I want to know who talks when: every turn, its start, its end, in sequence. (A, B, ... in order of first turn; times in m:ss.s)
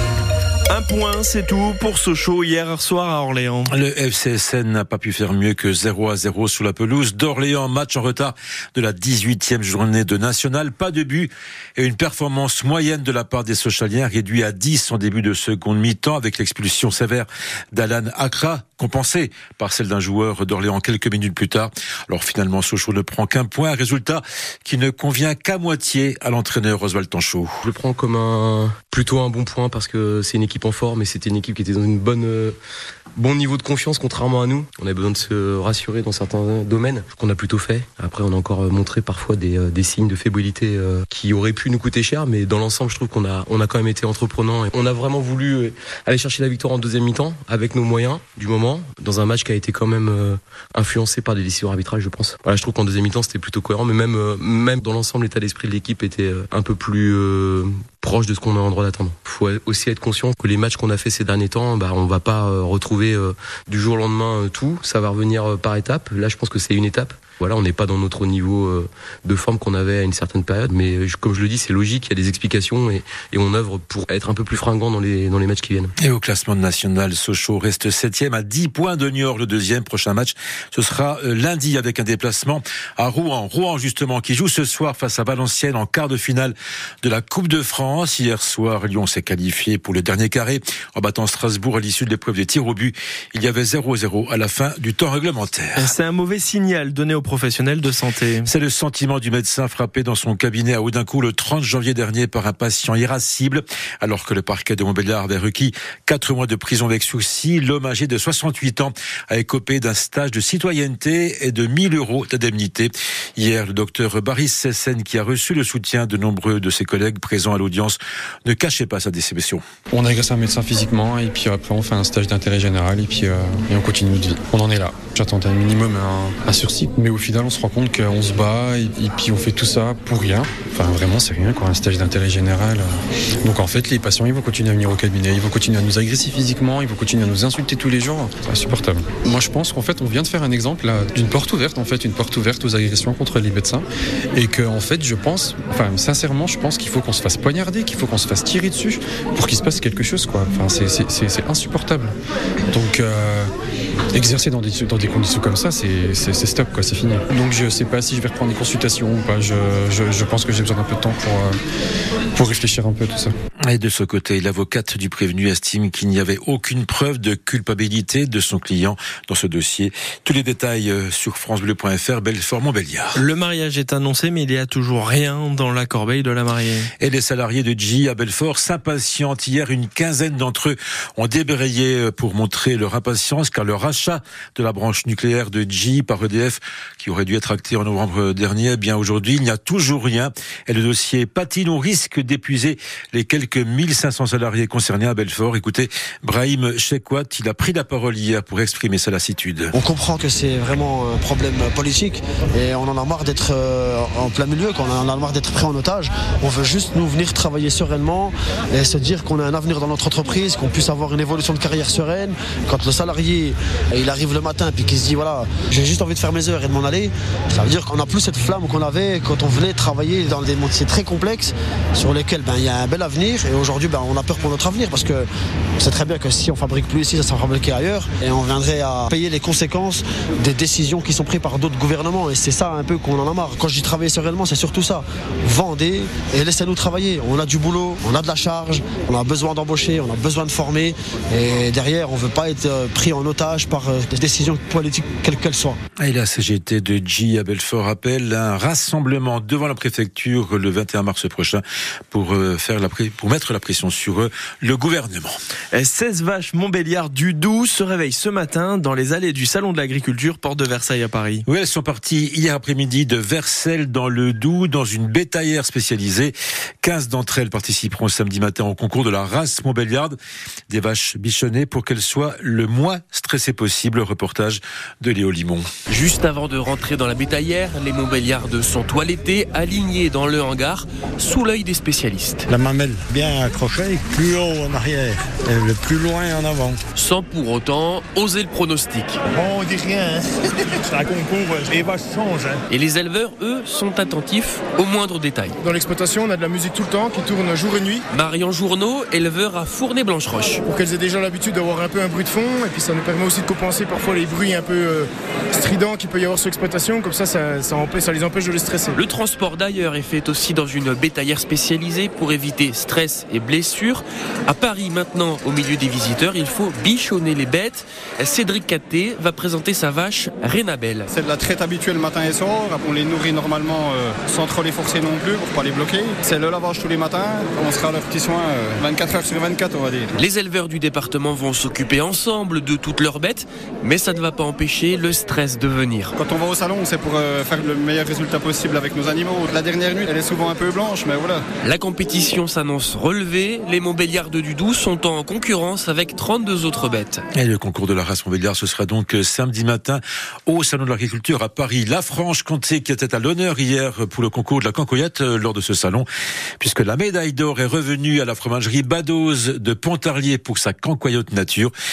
0:00.7-0:03.7 A
0:03.7-0:27.6 B
0:27.6-0:32.6 C
0:33.2-1:15.9 C
1:16.0-1:35.9 B
1:35.8-1:38.5 A
1:38.4-1:59.6 B
1:59.9-2:32.1 D
2:32.7-2:33.5 D
2:34.1-2:41.6 D
2:42.4-2:43.3 D
2:43.6-2:53.2 B
2:53.1-2:56.9 A
2:57.0-3:19.7 B
3:19.7-3:45.3 E
3:45.8-4:05.8 E
4:06.0-4:15.3 B
4:15.7-4:21.4 A
4:21.4-4:30.2 B
4:30.7-4:35.7 B
4:35.9-4:42.4 F
4:42.5-4:46.8 G
4:46.9-4:49.2 F
4:49.4-4:50.3 H
4:50.8-4:52.6 H
4:52.7-4:55.6 F
4:55.6-4:58.0 I
4:58.1-5:00.6 F
5:00.6-5:09.0 I
5:08.9-5:21.1 F
5:21.1-5:30.1 J
5:30.2-5:36.1 F
5:36.2-5:41.4 J
5:41.6-5:47.2 F
5:47.3-5:56.1 B
5:56.6-6:01.7 B